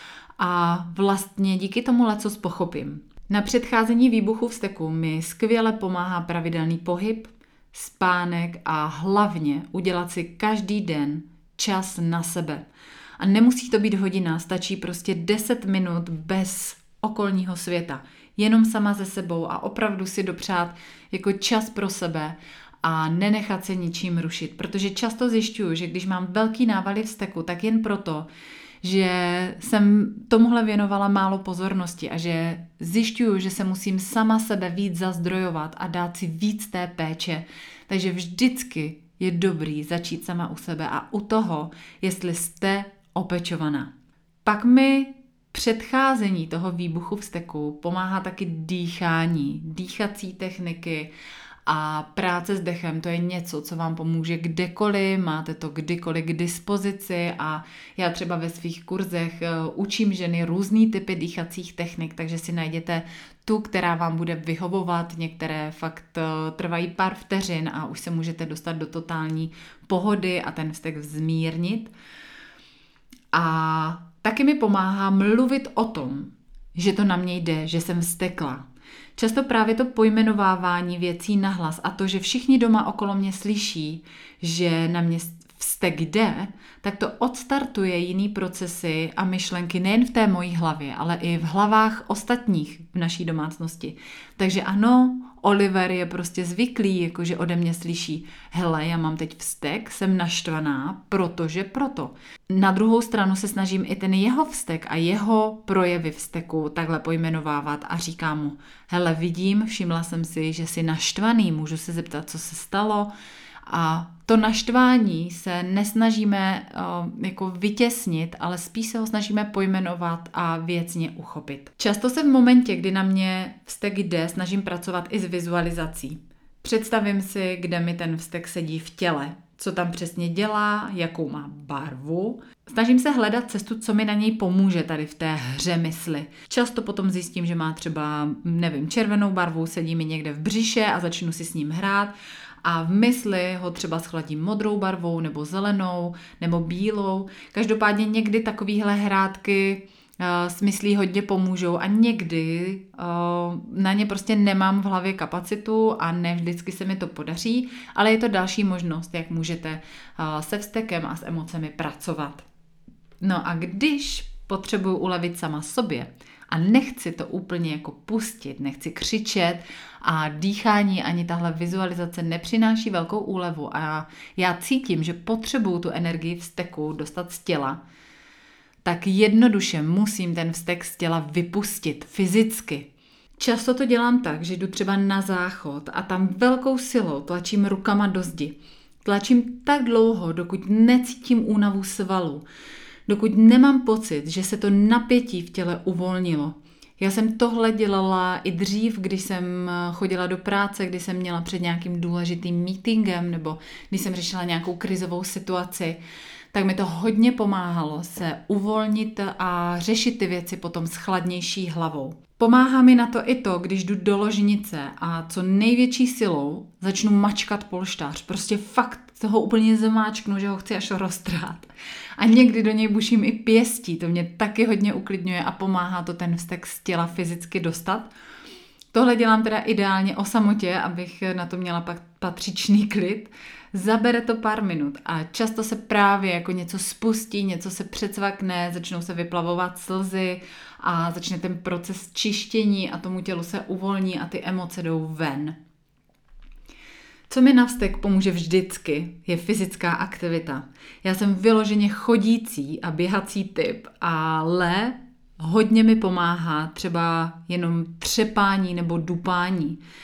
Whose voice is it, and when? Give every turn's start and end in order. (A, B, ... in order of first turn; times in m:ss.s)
0:00.4-0:12.6 A
0:13.2-0:28.3 A
0:28.8-0:43.9 A
0:44.4-0:51.1 A
0:51.7-1:11.9 A
1:13.3-1:53.1 A
1:53.7-2:22.1 A
2:22.6-2:42.4 A
2:43.2-2:57.8 A
2:58.8-3:12.4 A
3:13.1-3:26.0 A
3:26.5-3:48.1 A
3:48.9-4:05.6 A
4:07.3-4:19.8 A